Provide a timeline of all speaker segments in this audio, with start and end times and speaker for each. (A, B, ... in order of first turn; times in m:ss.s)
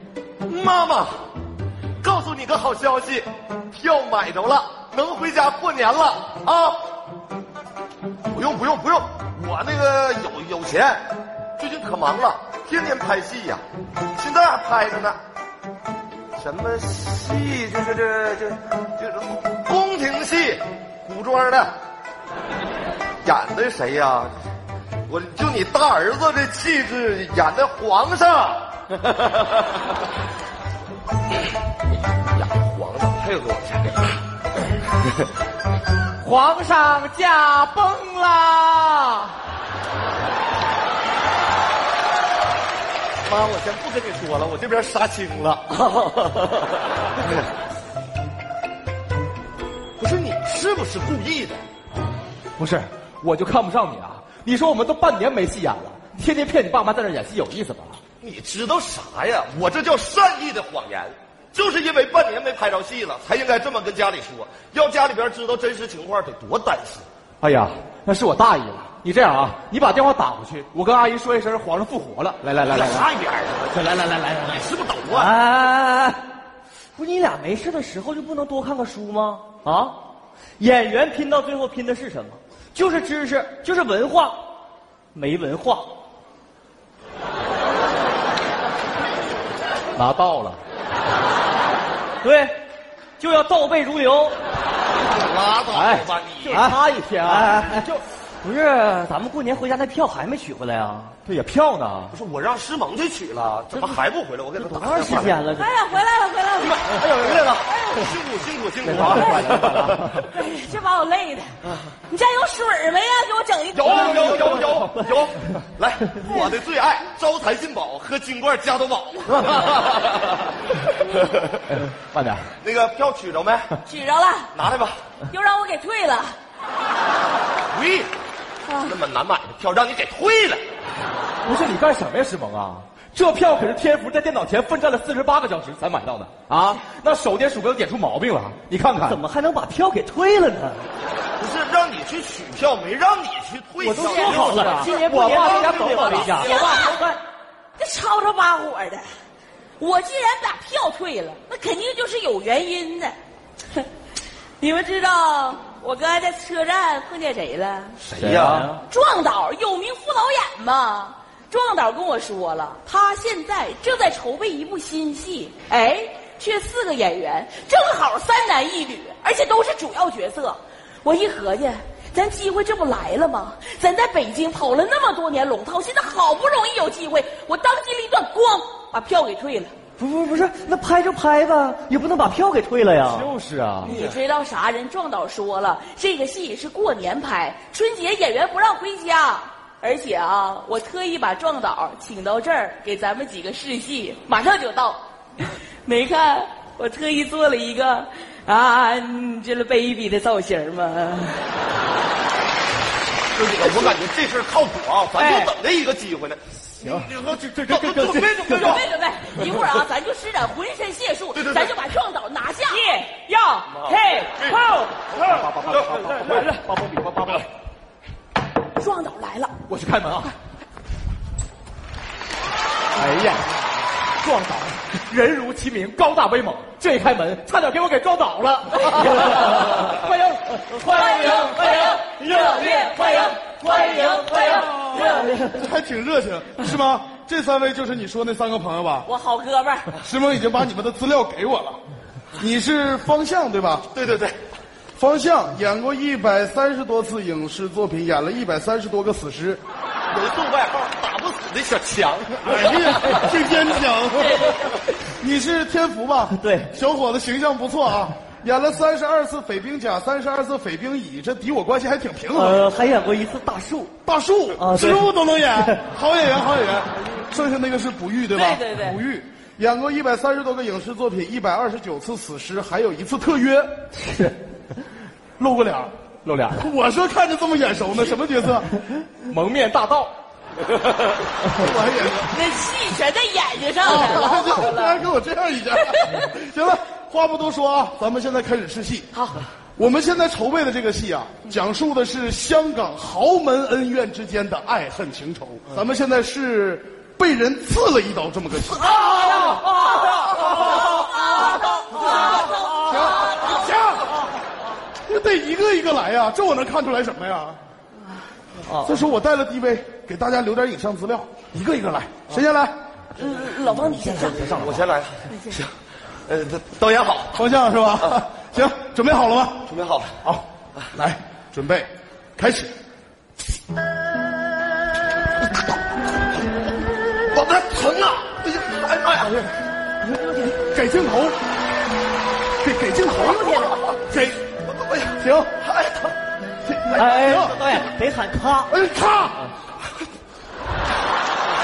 0:00.4-0:01.3 A
0:02.0-0:06.8 A
0:08.3-0:13.6 A
0:14.1-0:15.2 A
0:16.4-0:21.8 A
0:23.2-0:24.3 A
0:25.1-0:29.6 A
0:32.3-0:34.2 A
0:36.2-0:39.4 B
0:43.2-0:46.8 A
0:50.0-0:51.6 A
0:52.6-0:58.0 B
0:58.2-1:07.0 A
1:07.4-1:13.1 B
1:12.6-1:15.4 A
1:13.9-1:14.5 B
1:15.1-1:16.2 C
1:17.0-1:20.0 C
1:20.6-1:24.5 C
1:25.1-1:25.9 C
1:29.9-1:30.6 B
1:32.2-1:32.6 C
1:33.2-1:34.4 C
1:35.1-1:36.7 A
1:35.7-1:37.8 B
1:36.4-1:41.2 C
1:41.2-1:42.2 B
1:42.1-1:45.4 A
1:44.6-1:45.7 C
1:45.6-1:46.9 D
1:46.6-1:50.2 A
1:47.6-1:48.1 D
1:48.8-1:50.2 B
1:49.1-1:49.4 D
1:50.2-1:51.6 D
1:51.7-1:51.9 A
1:52.1-1:54.7 D
1:53.7-2:00.5 A
1:53.9-1:54.7 B
2:01.1-2:01.5 A
2:01.7-2:02.5 B
2:02.6-2:03.7 A
2:03.8-2:04.5 D
2:04.5-2:05.0 A
2:05.3-2:06.4 D
2:07.7-2:08.1 A
2:08.6-2:09.0 D
2:08.8-2:10.6 A
2:11.4-2:19.2 B
2:19.0-2:20.8 C
2:21.4-2:27.0 A
2:23.8-2:26.4 C
2:23.8-2:27.0 B
2:23.9-2:24.4 D
2:26.2-2:27.0 D
2:27.8-2:29.1 D
2:29.8-2:33.2 D
2:34.6-2:38.0 D
2:38.0-2:38.6 A
2:38.2-2:38.7 B
2:38.8-2:59.7 D
3:00.0-3:03.3 C
3:03.0-3:04.0 B
3:03.8-3:21.4 D
3:03.9-3:04.1 A
3:23.3-3:28.8 A
3:25.2-3:25.5 C
3:26.8-3:27.2 B
3:27.4-3:28.6 C
3:28.5-3:34.9 D
3:31.3-3:31.7 A
3:33.7-3:34.6 A
3:35.0-3:37.5 B
3:35.6-3:36.4 A
3:38.7-3:39.5 D
3:39.7-3:40.3 B
3:42.9-3:43.5 B
3:44.2-3:54.7 B
3:50.9-3:55.4 D
3:54.6-3:59.1 E
3:59.0-3:59.9 D
4:00.0-4:01.8 E
4:02.4-4:03.9 E
4:03.9-4:04.4 A
4:05.0-4:09.6 E
4:10.1-4:13.3 A
4:12.4-4:22.6 E
4:14.1-4:14.8 D
4:16.3-4:16.7 C
4:22.3-4:23.9 C
4:24.0-4:33.8 E
4:24.6-4:25.8 C
4:28.3-4:29.0 D
4:34.0-4:34.3 C
4:35.4-4:35.9 E
4:36.2-4:36.7 B
4:36.5-4:38.8 E
4:39.2-4:40.1 B
4:41.5-4:42.3 E
4:42.2-4:45.0 D
4:43.8-4:49.1 E
4:45.9-4:46.2 D
4:49.8-4:58.9 E
4:59.0-4:59.4 D
5:01.0-5:03.6 D
5:01.9-5:04.2 E
5:05.0-5:07.6 E
5:08.7-5:09.0 C
5:08.8-5:12.8 E
5:13.2-5:14.5 D
5:14.0-5:14.8 C
5:14.4-5:15.7 A
5:15.3-5:15.6 D
5:16.2-5:17.4 A
5:17.3-5:19.7 E
5:19.6-5:20.2 A
5:20.2-5:22.7 E
5:27.3-5:29.4 A
5:30.2-5:31.4 E
5:32.6-5:34.4 E
5:34.6-5:36.2 A
5:35.2-5:35.6 E
5:36.6-5:37.6 E
5:37.0-5:38.7 C
5:38.7-5:39.8 E